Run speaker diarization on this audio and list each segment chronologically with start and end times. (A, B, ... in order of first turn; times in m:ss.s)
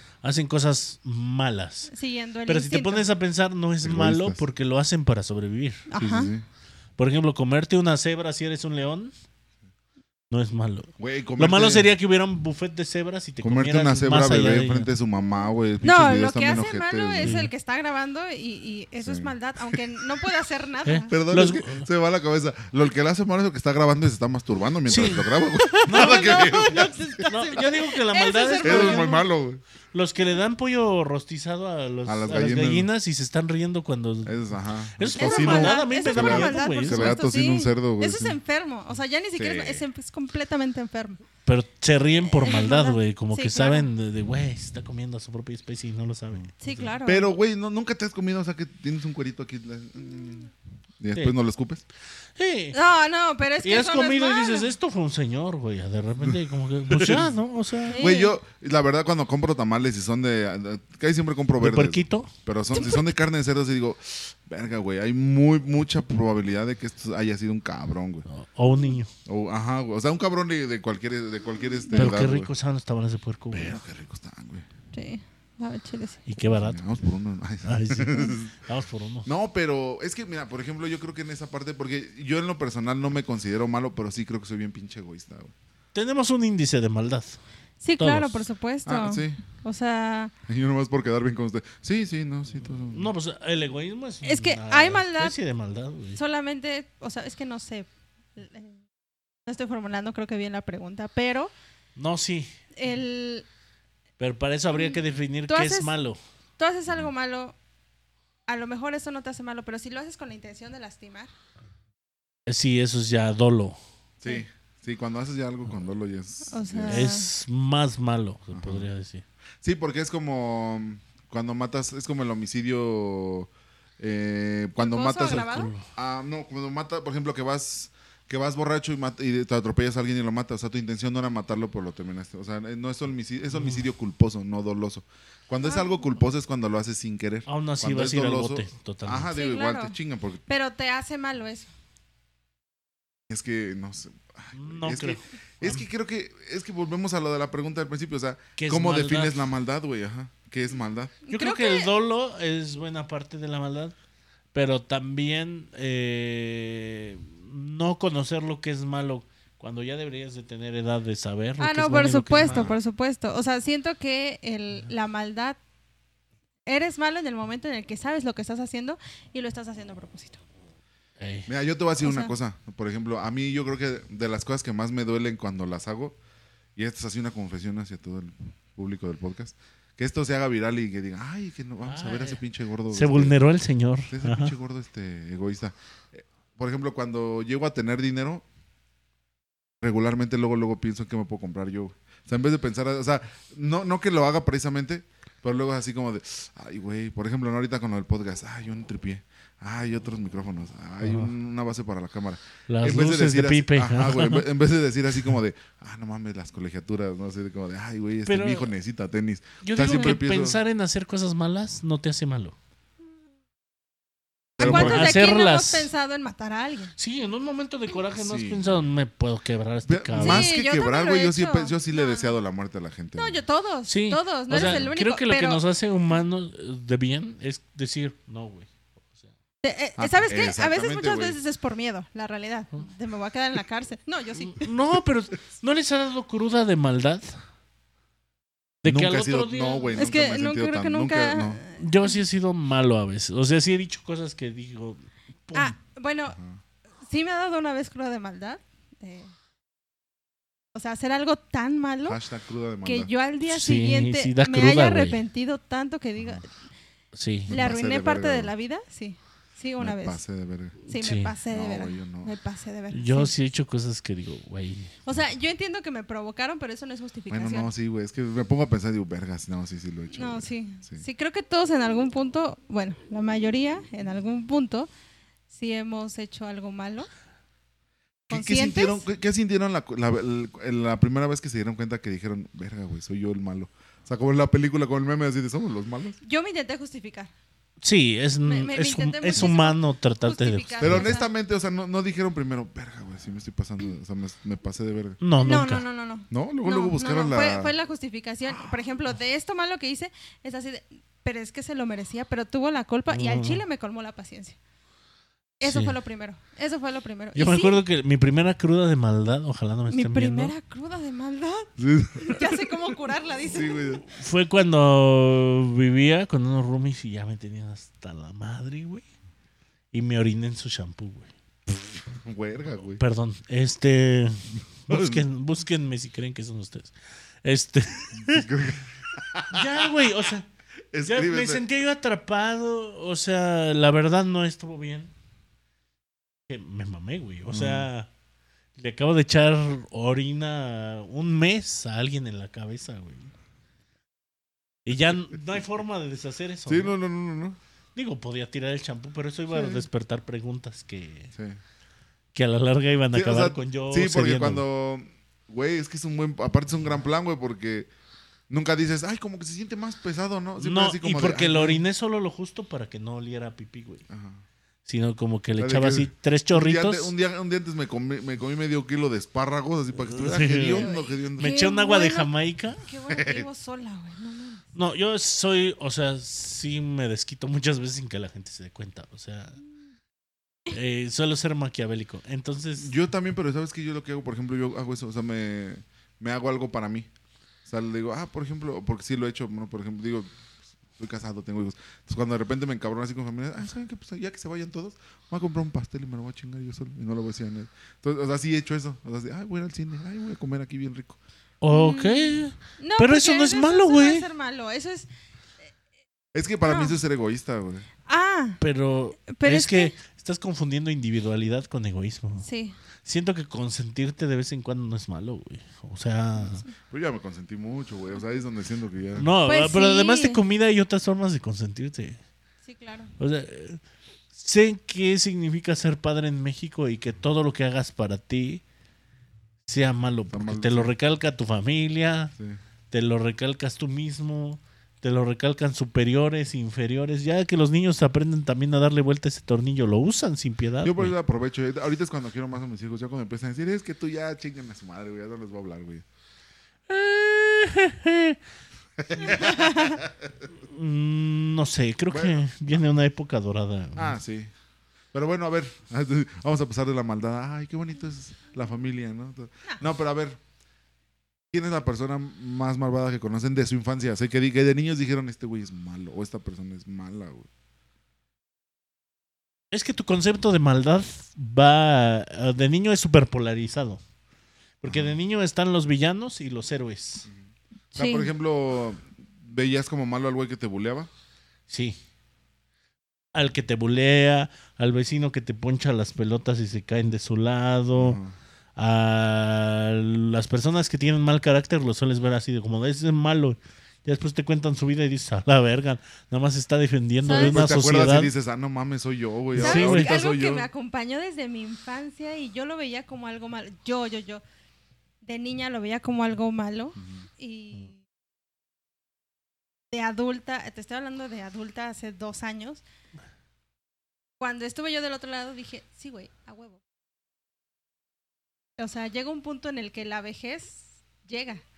0:00.2-0:01.9 A
0:01.9-0:03.0 B
0:02.5-0:05.9 A
0:03.8-0:04.4 C
0:05.9-0:06.3 B
0:06.0-0:06.4 C
0:07.0-0:09.1 A
0:10.3-0:14.9 A
0:11.0-0:11.9 C
0:13.4-0:17.4 C
0:15.8-0:21.1 B
0:17.2-0:17.5 A
0:19.0-0:19.8 C
0:20.8-0:21.9 A
0:21.1-0:27.2 C
0:24.9-0:26.6 A
0:25.6-0:29.3 B
0:27.2-0:29.2 A
0:28.6-0:29.6 C
0:29.9-0:34.4 A
0:32.0-0:32.9 C
0:34.2-0:38.4 C
0:35.0-0:37.2 A
0:35.2-0:41.2 B
0:39.4-0:39.8 C
0:41.4-0:46.8 A
0:42.2-0:43.9 B
0:46.6-0:47.3 B
0:47.0-0:51.8 C
0:52.4-0:52.8 A
0:52.7-0:54.7 B
0:53.6-0:58.0 A
0:56.2-0:57.3 C
0:57.9-0:58.4 B
0:58.0-1:08.2 C
1:01.6-1:02.3 A
1:02.7-1:03.1 B
1:08.3-1:09.1 A
1:09.2-1:12.5 C
1:11.9-1:13.8 A
1:13.5-1:14.6 C
1:14.9-1:16.2 B
1:16.3-1:16.8 A
1:16.4-1:18.6 C
1:17.6-1:19.3 A
1:19.2-1:25.5 C
1:25.9-1:27.4 A
1:27.8-1:30.3 B
1:28.0-1:28.4 A
1:28.8-1:29.4 C
1:30.5-1:33.1 C
1:32.8-1:36.2 A
1:34.2-1:35.4 B
1:36.2-1:38.8 B
1:39.4-1:41.5 B
1:42.0-1:42.5 A
1:42.8-1:43.4 B
1:44.2-1:46.2 A
1:44.7-1:45.9 B
1:46.6-1:47.6 B
1:48.5-1:51.3 B
1:52.5-1:53.8 A
1:54.2-1:57.1 C
1:56.5-1:57.3 B
1:56.9-1:59.2 A
1:58.5-1:58.9 C
1:59.6-2:20.4 C
2:04.8-2:05.7 B
2:05.3-2:05.8 A
2:13.5-2:13.8 A
2:15.6-2:16.1 B
2:17.5-2:19.3 A
2:19.3-2:20.0 B
2:20.5-2:21.7 B
2:23.3-2:31.1 C
2:24.5-2:25.8 A
2:28.6-2:29.5 A
2:31.2-2:31.9 B
2:31.3-2:33.9 A
2:34.5-2:42.7 A
2:41.6-2:45.6 B
2:42.4-2:42.7 C
2:46.6-2:50.4 B
2:51.2-2:51.5 A
2:51.5-2:56.2 C
2:52.0-2:52.3 B
2:56.8-3:03.4 C
3:01.8-3:04.5 A
3:04.1-3:08.4 C
3:09.8-3:30.6 C
3:21.0-3:21.3 A
3:22.7-3:24.4 A
3:28.2-3:28.7 A
3:29.6-3:32.5 A
3:29.9-3:30.2 B
3:34.6-3:35.2 C
3:34.6-3:36.9 B
3:34.6-3:35.9 A
3:37.0-3:40.5 A
3:38.1-3:38.8 C
3:39.8-3:43.4 C
3:40.2-3:42.3 B
3:43.2-3:45.6 B
3:43.9-3:48.7 A
3:44.5-3:44.9 C
3:49.6-3:54.7 B
3:50.0-3:51.4 C
3:54.4-3:57.4 A
3:58.8-4:00.0 A
3:58.8-4:01.6 C
3:59.9-4:02.2 B
4:01.8-4:05.8 A
4:05.5-4:06.4 B
4:06.3-4:06.6 C
4:07.0-4:09.3 B
4:10.7-4:12.2 B
4:12.0-4:13.1 C
4:12.8-4:16.5 B
4:13.4-4:15.2 A
4:17.1-4:17.5 A
4:17.5-4:18.5 C
4:17.5-4:20.2 B
4:19.8-4:20.8 C
4:20.9-4:23.4 B
4:21.0-4:21.3 A
4:21.5-4:22.3 C
4:22.9-4:25.0 A
4:25.0-4:27.7 B
4:27.3-4:31.0 C
4:30.1-4:34.9 B
4:35.5-4:37.1 B
4:38.3-4:46.2 C
4:38.3-4:39.0 B
4:46.2-4:47.3 B
4:47.8-4:51.1 A
4:48.4-4:51.3 B
4:50.8-4:55.2 C
4:55.2-4:55.8 A
4:55.4-5:04.6 B
4:56.3-4:57.7 C
5:03.1-5:03.6 A
5:05.6-5:07.8 B
5:05.6-5:06.0 A
5:07.3-5:10.5 A
5:09.9-5:13.9 B
5:11.8-5:12.8 C
5:13.5-5:14.0 C
5:14.0-5:19.0 A
5:19.9-5:21.3 A
5:22.1-5:23.0 C
5:23.0-5:28.5 A
5:24.9-5:25.2 C
5:28.1-5:30.1 C
5:29.5-5:30.5 A
5:30.9-5:31.6 C
5:31.0-5:35.1 A
5:36.5-5:38.1 A
5:37.5-5:37.9 C
5:38.8-5:43.3 A
5:44.8-5:47.0 A
5:46.7-5:47.6 C
5:48.0-5:51.3 A
5:49.5-5:49.9 C
5:51.3-5:51.6 C
5:52.3-5:54.6 A
5:53.1-5:57.9 C
5:58.5-6:01.8 C
6:00.6-6:04.0 A
6:04.1-6:04.4 C
6:04.8-6:07.1 A
6:05.6-6:11.6 C
6:10.1-6:12.8 A
6:10.7-6:14.7 B
6:13.1-6:13.5 C
6:14.7-6:19.6 A
6:20.7-6:22.9 A
6:22.8-6:27.1 C
6:27.6-6:30.4 C
6:30.9-6:41.2 C
6:41.6-6:44.2 A
6:41.7-6:45.1 B
6:46.3-6:47.9 C
6:46.6-6:47.0 B
6:48.0-6:48.6 B
6:48.6-6:52.4 A
6:49.3-6:49.9 B
6:52.4-6:52.8 B
6:53.0-6:56.6 A
6:56.8-6:59.2 C
6:59.2-7:02.2 A
6:59.4-7:00.4 B
7:02.6-7:03.1 B
7:03.2-7:03.8 A
7:04.3-7:08.6 A
7:09.6-7:12.3 A
7:10.3-7:10.9 C
7:12.9-7:21.1 A
7:20.8-7:26.0 C
7:26.9-7:28.4 A
7:29.0-7:30.4 C
7:29.2-7:30.0 B
7:30.6-7:34.2 A
7:32.1-7:32.4 C
7:34.0-7:34.5 C
7:35.1-7:40.4 C
7:41.5-7:47.5 C
7:49.7-7:54.0 A
7:54.8-7:57.3 A
7:54.8-7:55.2 C
7:57.9-7:58.3 B
7:58.0-8:01.1 C
8:01.7-8:02.0 A
8:03.3-8:08.2 A
8:07.9-8:08.3 C
8:08.8-8:18.3 A
8:17.2-8:17.6 B
8:17.3-8:20.7 C
8:19.5-8:20.1 A
8:19.6-8:24.4 B
8:25.2-8:28.0 B
8:29.9-8:32.8 B
8:34.4-8:36.8 B
8:38.8-8:41.6 B